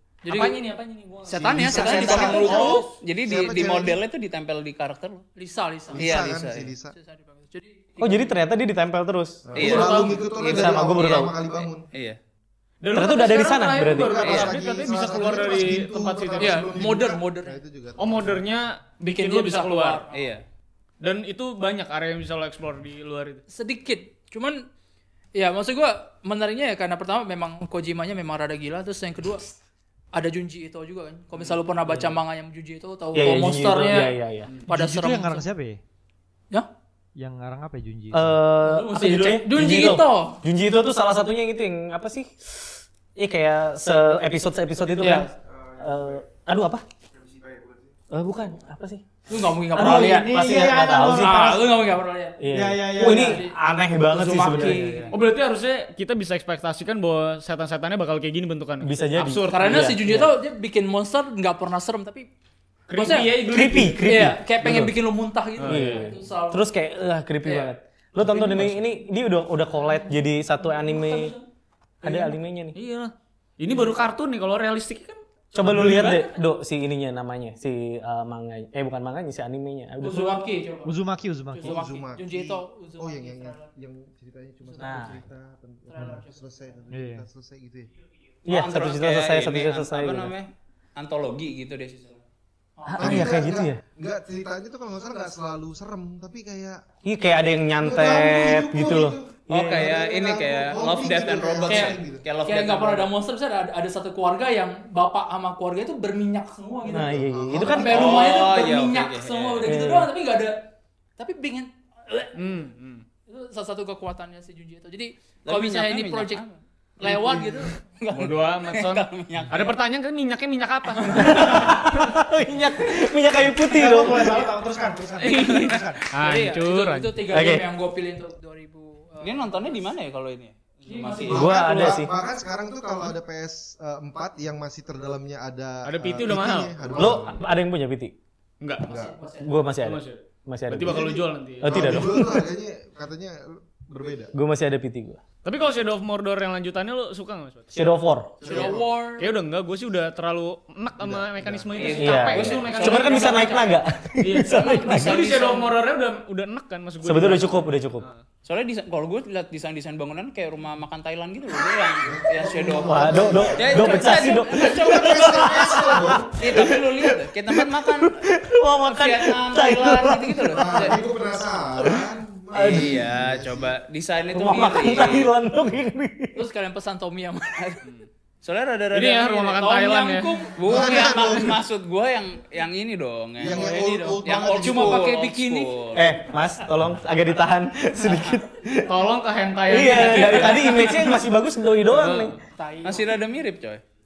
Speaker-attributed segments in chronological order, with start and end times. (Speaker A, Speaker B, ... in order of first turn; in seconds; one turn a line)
Speaker A: 0.2-0.6
Speaker B: 0.3-2.9
Speaker A: 1.3-2.9
Speaker C: 1.3-4.0
Speaker D: 1.6-5.3
Speaker A: 5.4-6.2
Speaker C: 5.9-6.9
Speaker D: 6.0-6.7
Speaker A: 6.9-8.2
Speaker E: 8.0-9.9
Speaker C: 9.5-11.8
Speaker D: 9.6-12.2
Speaker B: 9.6-10.2
Speaker E: 10.4-11.3
Speaker B: 12.8-16.7
Speaker E: 12.9-14.4
Speaker C: 13.9-18.4
Speaker D: 14.3-14.6
Speaker A: 16.4-17.6
Speaker B: 18.0-20.1
Speaker A: 19.0-20.3
Speaker D: 20.1-20.4
Speaker B: 21.0-23.4
Speaker A: 23.5-24.6
Speaker A: 25.4-29.4
Speaker A: 30.1-34.1
Speaker E: 33.1-34.5
Speaker F: 34.7-35.8
Speaker A: 34.7-35.5
Speaker F: 37.2-38.4
Speaker E: 38.1-46.8
Speaker B: 38.6-39.4
Speaker A: 39.0-40.4
Speaker A: 45.0-45.3
Speaker C: 47.2-47.9
Speaker E: 48.1-49.0
Speaker A: 49.3-50.6
Speaker E: 49.8-51.6
Speaker F: 49.8-51.6
Speaker A: 51.2-52.4
Speaker E: 52.4-55.1
Speaker F: 52.5-53.4
Speaker A: 53.0-53.5
Speaker A: 54.1-55.2
Speaker B: 55.1-60.0
Speaker E: 58.8-60.3
Speaker A: 59.3-62.3
Speaker B: 62.9-64.1
Speaker A: 62.9-63.5
Speaker E: 63.5-64.9
Speaker A: 64.0-66.7
Speaker B: 65.6-66.1
Speaker E: 65.7-71.3
Speaker A: 67.5-68.8
Speaker A: 70.7-71.4
Speaker E: 72.0-72.8
Speaker B: 72.0-76.2
Speaker E: 75.5-80.5
Speaker A: 75.9-76.1
Speaker A: 80.0-80.9
Speaker F: 80.8-81.8
Speaker A: 81.5-83.7
Speaker C: 81.6-87.9
Speaker A: 84.6-85.2
Speaker E: 84.8-85.2
Speaker A: 85.9-86.4
Speaker F: 86.9-87.2
Speaker E: 88.5-90.3
Speaker D: 88.5-92.2
Speaker A: 92.8-93.3
Speaker E: 92.9-93.8
Speaker C: 93.0-96.8
Speaker E: 97.0-99.8
Speaker C: 97.8-102.2
Speaker D: 99.5-103.1
Speaker A: 101.7-110.6
Speaker E: 106.9-108.2
Speaker C: 107.1-108.3
Speaker D: 107.9-109.7
Speaker E: 109.7-110.1
Speaker A: 111.2-112.7
Speaker B: 112.4-113.0
Speaker A: 113.3-117.8
Speaker D: 115.5-116.4
Speaker D: 118.0-119.8
Speaker B: 118.1-121.6
Speaker E: 121.2-124.5
Speaker F: 123.6-126.0
Speaker B: 125.2-127.2
Speaker D: 125.3-126.6
Speaker A: 126.3-129.8
Speaker E: 127.3-127.7
Speaker D: 129.2-131.6
Speaker A: 130.9-131.6
Speaker C: 131.3-137.4
Speaker E: 131.3-132.1
Speaker B: 135.8-137.0
Speaker E: 136.9-138.1
Speaker B: 138.6-138.9
Speaker A: 138.8-139.7
Speaker C: 138.9-139.1
Speaker E: 139.4-142.5
Speaker B: 139.8-142.3
Speaker C: 140.8-144.3
Speaker E: 144.3-145.2
Speaker B: 145.4-147.9
Speaker E: 147.7-148.3
Speaker A: 148.4-149.3
Speaker C: 148.4-148.8
Speaker B: 148.5-153.6
Speaker C: 151.0-152.0
Speaker D: 151.8-153.7
Speaker E: 152.0-155.2
Speaker A: 153.3-153.7
Speaker B: 154.2-158.2
Speaker D: 154.5-155.7
Speaker E: 157.0-158.1
Speaker D: 158.4-168.2
Speaker C: 161.9-166.4
Speaker E: 162.7-171.0
Speaker A: 164.0-164.5
Speaker D: 168.8-171.0
Speaker C: 170.6-173.8
Speaker E: 171.8-173.0
Speaker D: 172.6-175.3
Speaker E: 174.3-176.4
Speaker A: 176.3-177.6
Speaker D: 178.4-179.6
Speaker B: 178.9-180.4
Speaker A: 179.6-180.6
Speaker D: 180.6-186.1
Speaker C: 180.7-181.6
Speaker C: 183.4-185.1
Speaker A: 183.4-185.8
Speaker E: 185.9-188.9
Speaker B: 188.9-191.2
Speaker E: 189.7-192.3
Speaker D: 190.1-190.5
Speaker B: 191.9-192.4
Speaker A: 192.5-193.2
Speaker D: 192.8-193.8